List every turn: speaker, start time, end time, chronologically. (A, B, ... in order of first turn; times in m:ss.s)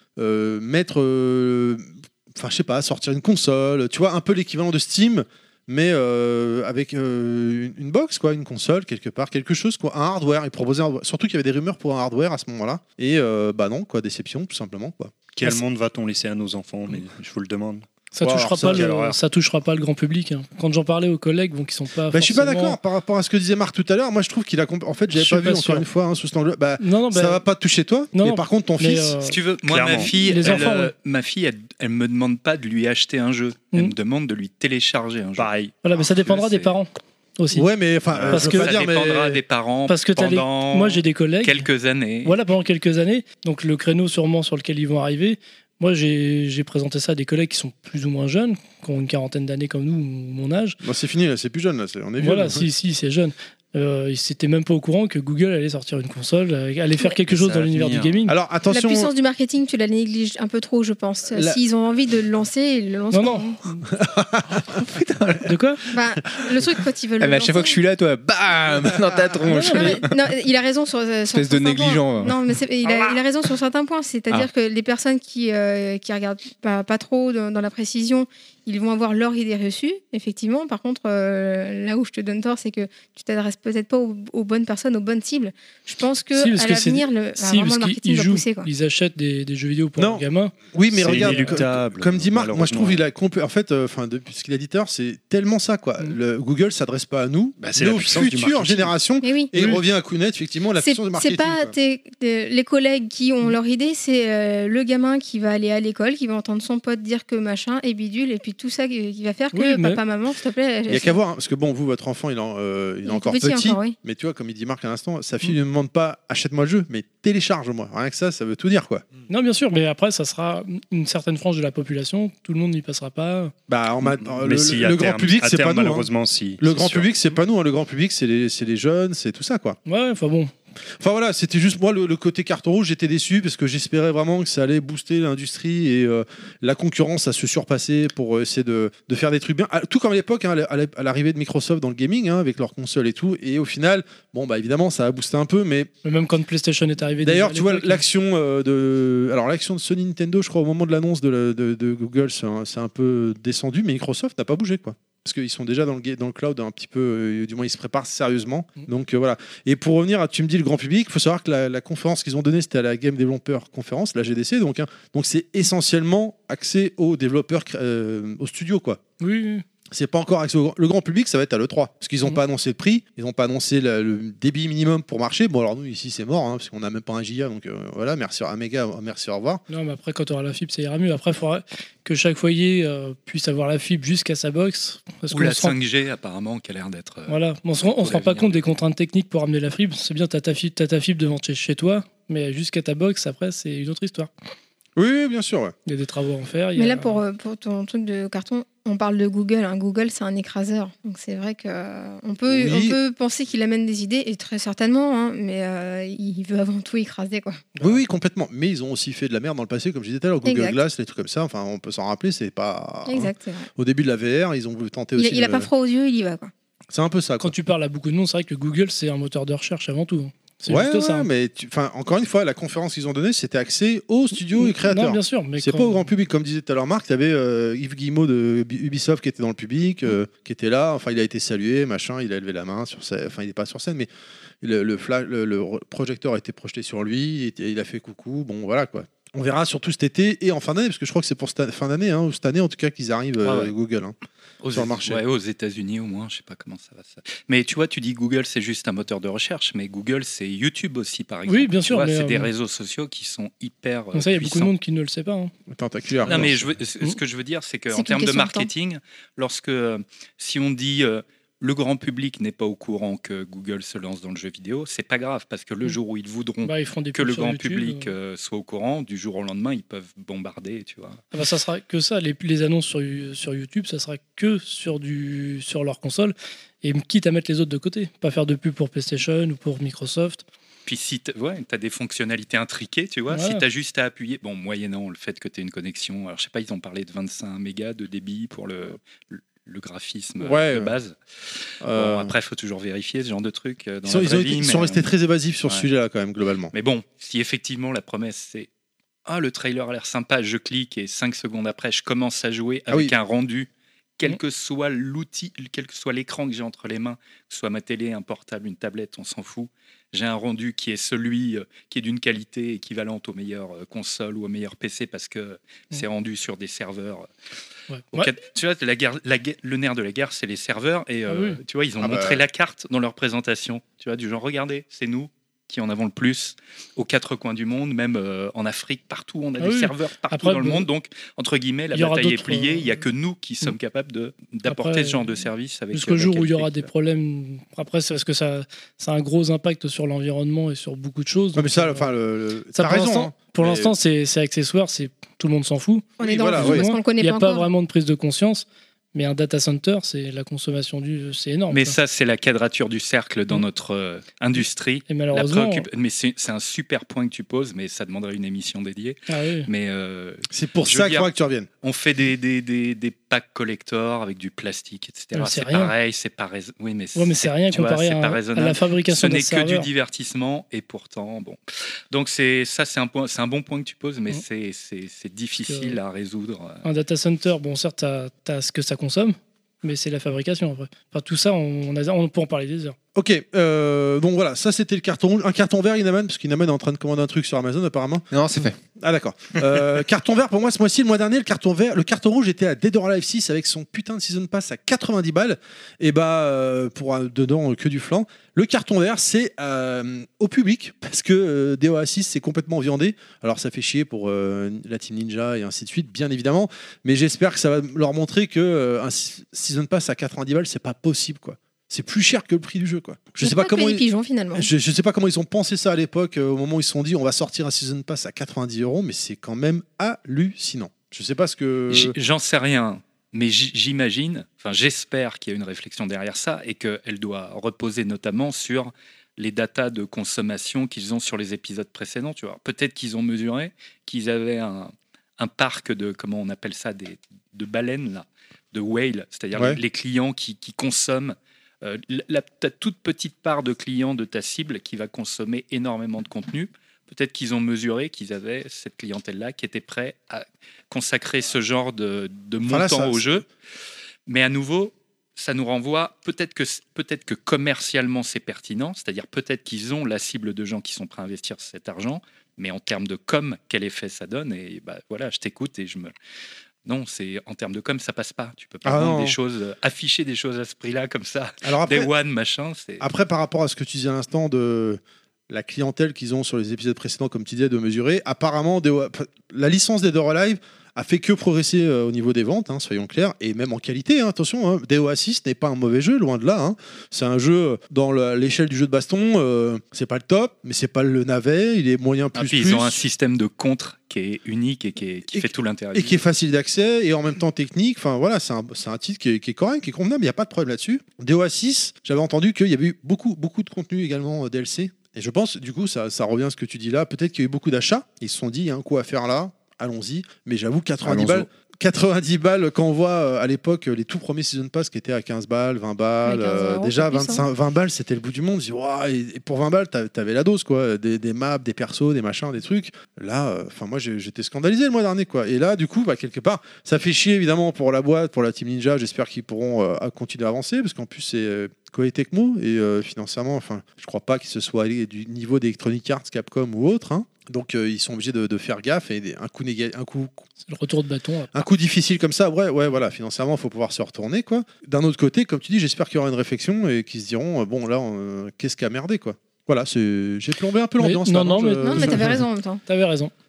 0:00.2-0:15.2 A
0:15.3-0:17.9 B
0:18.1-0:22.8 C
0:18.2-0:19.0 A
0:18.6-0:19.2 B
0:22.1-0:29.2 A
0:25.1-0:25.8 C
0:26.8-0:27.4 C
0:28.1-0:29.4 C
0:29.2-0:36.8 D
0:29.6-0:30.6 B
0:30.1-0:30.9 C
0:35.4-0:35.8 B
0:35.8-0:37.7 C
0:37.5-0:39.4 A
0:38.1-0:38.5 B
0:38.3-0:38.7 C
0:38.3-0:42.4 D
0:39.9-0:41.7 C
0:42.2-0:50.8 C
0:50.8-0:52.7 A
0:52.2-0:58.3 C
0:57.3-0:58.2 B
0:58.3-0:59.1 A
0:58.7-1:03.6 E
1:01.3-1:01.6 A
1:03.1-1:03.5 C
1:03.9-1:04.6 A
1:04.7-1:05.5 F
1:05.5-1:05.8 C
1:05.9-1:07.8 E
1:07.2-1:10.1 F
1:09.5-1:10.0 C
1:09.7-1:28.7 E
1:11.3-1:12.4 F
1:26.4-1:30.6 C
1:30.0-1:41.7 A
1:30.9-1:33.0 B
1:31.1-1:31.7 C
1:37.6-1:38.9 B
1:39.2-1:39.5 E
1:40.8-1:51.2 E
1:49.5-1:50.0 C
1:50.9-1:59.1 A
1:53.1-1:54.0 E
1:59.3-2:03.5 C
2:03.7-2:09.8 A
2:04.1-2:07.1 B
2:09.9-2:10.5 C
2:11.0-2:25.9 A
2:26.0-2:28.0 C
2:27.2-2:49.0 A
2:49.2-2:49.6 C
2:49.9-2:59.6 A
2:59.7-3:05.8 C
3:05.3-3:08.7 D
3:07.3-3:14.3 C
3:15.0-3:15.8 A
3:15.9-3:17.2 C
3:16.8-3:27.6 E
3:22.5-3:23.0 A
3:27.8-3:28.0 C
3:27.8-3:35.7 A
3:30.4-3:30.8 E
3:33.1-3:33.7 E
3:35.2-3:36.5 E
3:36.9-3:37.5 A
3:37.4-3:41.3 C
3:40.7-3:54.1 A
3:44.6-3:46.0 C
3:54.6-4:04.2 A
4:03.4-4:03.7 D
4:04.6-4:14.7 D
4:04.7-4:05.2 A
4:11.5-4:12.5 C
4:14.1-4:15.5 C
4:15.7-4:16.6 A
4:16.3-4:31.2 D
4:17.9-4:18.7 E
4:26.6-4:28.1 C
4:31.3-4:40.4 C
4:40.9-4:51.2 D
4:43.3-4:43.6 C
4:50.4-4:50.9 A
4:51.8-4:52.3 A
4:51.9-4:55.1 D
4:54.0-4:56.7 A
4:56.7-4:58.7 D
4:59.3-5:17.3 D
5:02.9-5:03.2 A
5:17.9-5:18.3 C
5:18.1-5:36.9 D
5:21.3-5:21.6 C
5:22.0-5:22.4 A
5:29.6-5:30.9 C
5:31.9-5:33.0 C
5:34.7-5:42.1 C
5:41.6-5:43.9 A
5:42.8-5:52.0 C
5:46.2-5:47.7 E
5:46.2-5:46.9 A
5:51.7-6:01.3 D
5:55.1-5:55.9 C
5:59.3-5:59.7 C
6:00.5-6:01.7 A
6:01.8-6:11.6 D
6:05.4-6:05.9 C
6:07.2-6:09.9 C
6:12.1-6:16.8 D
6:15.7-6:16.0 C
6:16.8-6:23.0 C
6:23.2-7:02.2 A
6:28.3-6:28.8 F
6:53.4-6:54.7 E
7:01.9-7:33.5 D
7:19.5-7:19.8 A
7:32.6-7:33.4 A
7:34.3-7:46.1 D
7:46.8-7:53.1 D
7:48.8-7:49.4 A
7:51.6-7:52.1 A
7:53.0-8:13.0 A
8:12.4-8:16.2 D
8:15.3-9:00.5 A
8:31.0-8:31.5 F
8:36.2-8:37.5 E
9:00.6-9:01.6 C
9:01.5-9:12.3 A
9:11.0-9:13.3 C
9:11.8-9:12.8 E